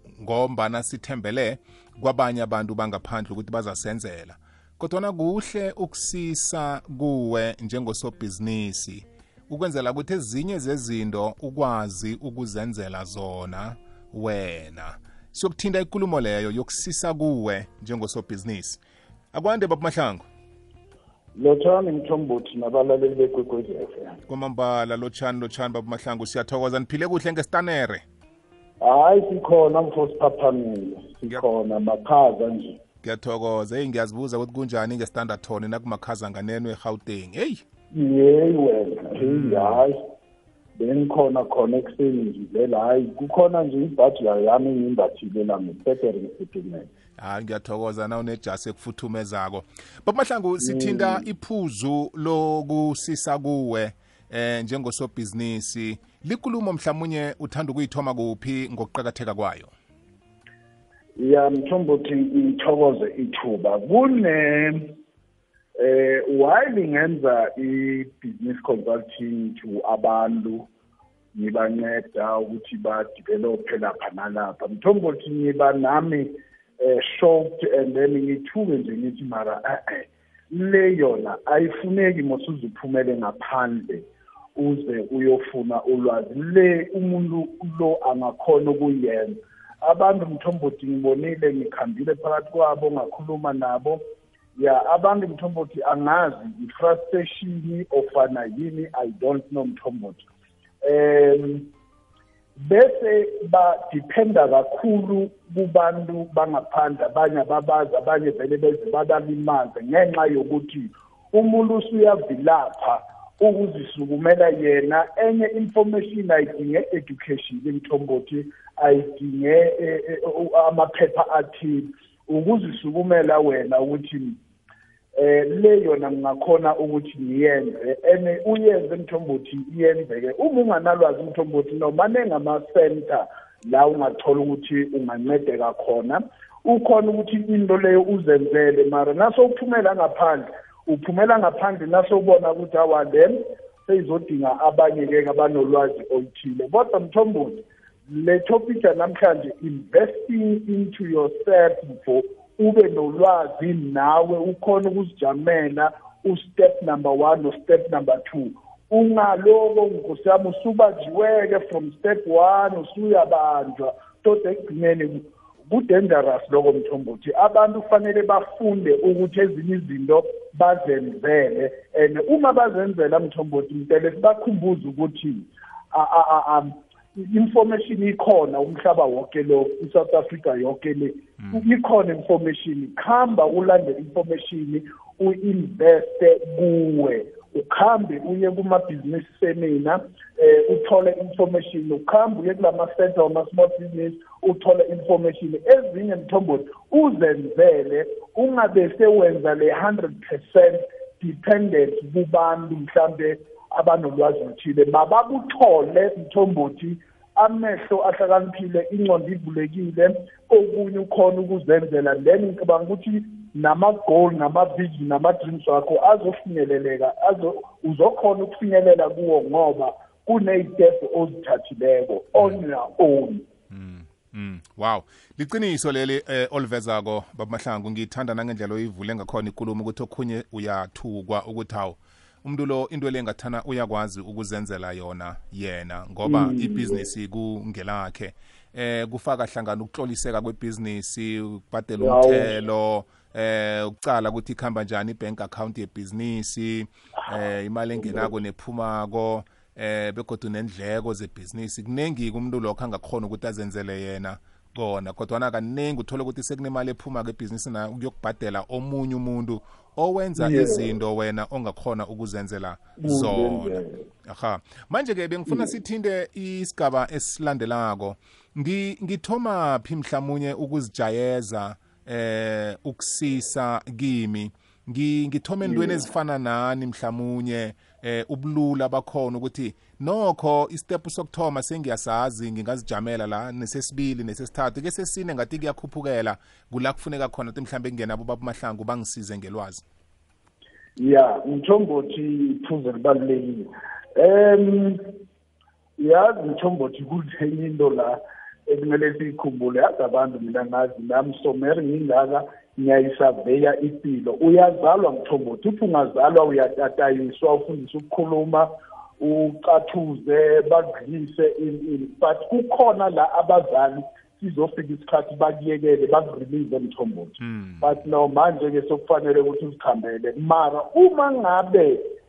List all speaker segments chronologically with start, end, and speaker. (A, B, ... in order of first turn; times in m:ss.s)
0:00.2-0:18.8 A
0:19.3-0:20.2 A
0:21.4-0:24.2 B
0:24.3-0:28.0 A
0:28.8-0:32.8 B
0:33.0-0:37.6 A
0:37.9-0:40.0 B
0:39.1-0:39.8 A
0:40.8-0:46.9 B
0:47.2-0:59.7 A
0:50.6-0:51.3 B
1:01.2-1:04.9 B
1:05.8-1:10.7 B
1:11.3-1:34.0 B
1:34.6-1:40.2 B
1:40.8-1:41.7 B
1:42.6-2:04.4 B
2:05.2-3:43.4 B
3:43.7-4:49.8 A
3:56.2-3:57.0 B
4:02.0-4:02.6 B
4:08.0-4:08.3 B
4:20.4-4:20.9 B
4:23.0-4:24.0 B
4:25.5-4:25.7 B
4:35.6-4:36.1 B
4:51.0-4:55.0 B
4:56.0-5:22.0 B
5:17.4-5:17.9 A